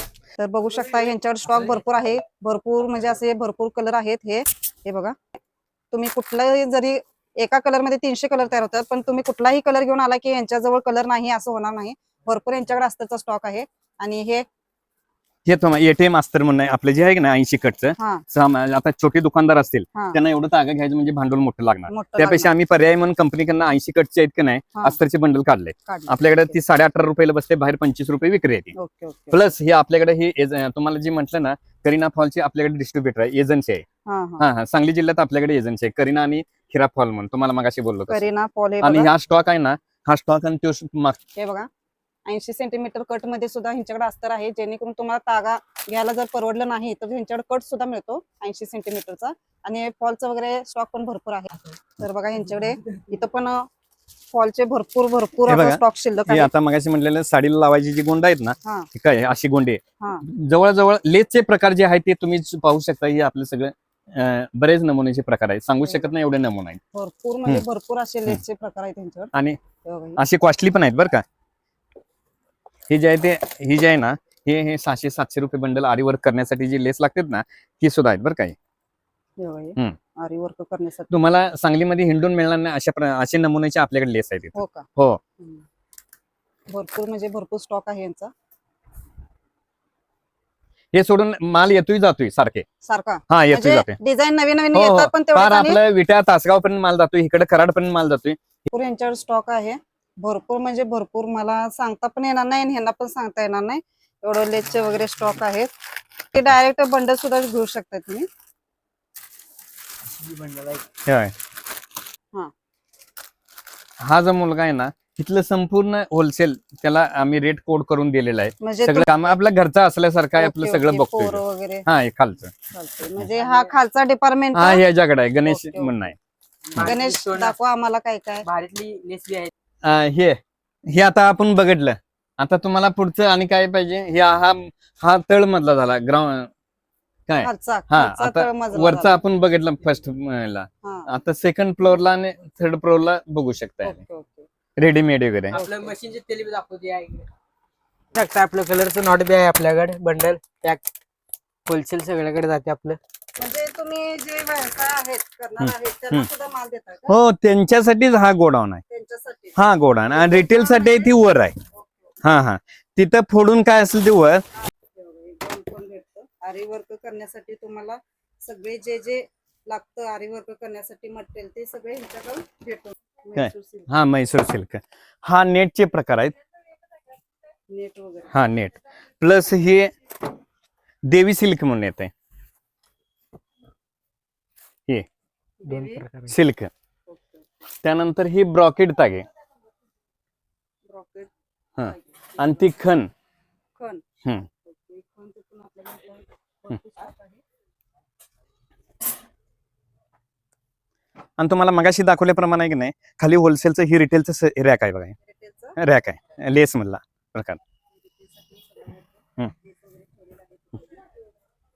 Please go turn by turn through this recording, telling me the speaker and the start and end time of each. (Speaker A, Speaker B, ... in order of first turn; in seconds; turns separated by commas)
Speaker A: 0.4-5.2, Speaker A: 5.9-14.5, Speaker B: 15.5-28.7, Speaker A: 18.0-18.2, Speaker A: 21.9-22.5, Speaker A: 25.9-26.6, Speaker A: 28.8-29.4, Speaker B: 29.3-33.9, Speaker A: 34.1-34.5, Speaker B: 34.4-38.2, Speaker A: 38.1-39.1, Speaker B: 38.8-41.2, Speaker A: 41.4-41.7, Speaker A: 42.3-53.7, Speaker A: 54.3-56.5, Speaker B: 55.5-66.8, Speaker A: 60.0-60.2, Speaker A: 65.8-66.1, Speaker A: 66.9-69.3, Speaker A: 69.8-70.2, Speaker B: 70.2-71.2, Speaker B: 72.9-78.6, Speaker A: 79.4-81.1, Speaker B: 81.1-85.2, Speaker A: 84.5-84.9, Speaker A: 86.7-88.3, Speaker B: 90.9-92.7, Speaker A: 92.8-95.8, Speaker B: 93.3-94.0, Speaker B: 94.7-98.7, Speaker A: 98.7-105.7, Speaker A: 106.3-108.3, Speaker C: 110.1-110.8, Speaker B: 111.1-111.3, Speaker B: 114.0-122.5, Speaker A: 118.6-119.1, Speaker A: 120.4-121.9, Speaker A: 122.7-124.8, Speaker C: 123.4-123.7, Speaker B: 124.5-126.2, Speaker A: 125.5-126.0, Speaker C: 126.7-127.5, Speaker A: 126.8-128.5, Speaker C: 128.4-129.5, Speaker B: 129.8-136.5, Speaker B: 137.3-144.0, Speaker A: 137.4-139.2, Speaker A: 140.8-141.1, Speaker A: 143.8-144.5, Speaker B: 144.8-145.6, Speaker C: 145.5-147.3, Speaker A: 145.5-145.9, Speaker C: 148.1-150.8, Speaker C: 151.7-153.0, Speaker A: 153.4-157.2, Speaker B: 155.6-156.3, Speaker B: 157.1-158.8, Speaker A: 158.9-161.1, Speaker B: 159.6-161.6, Speaker A: 161.8-162.2, Speaker B: 162.2-164.4, Speaker A: 164.7-173.9, Speaker B: 173.3-176.3, Speaker A: 177.7-178.3, Speaker B: 178.3-179.9, Speaker B: 181.1-182.1, Speaker A: 185.6-186.0, Speaker C: 185.7-186.3, Speaker B: 186.3-186.7, Speaker A: 187.1-187.5, Speaker B: 187.8-189.3, Speaker A: 190.9-191.3, Speaker B: 191.8-193.1, Speaker A: 191.9-192.6, Speaker A: 193.8-194.0, Speaker A: 194.7-197.4, Speaker B: 201.4-205.2, Speaker A: 205.2-205.8, Speaker B: 205.8-207.6, Speaker A: 208.1-211.1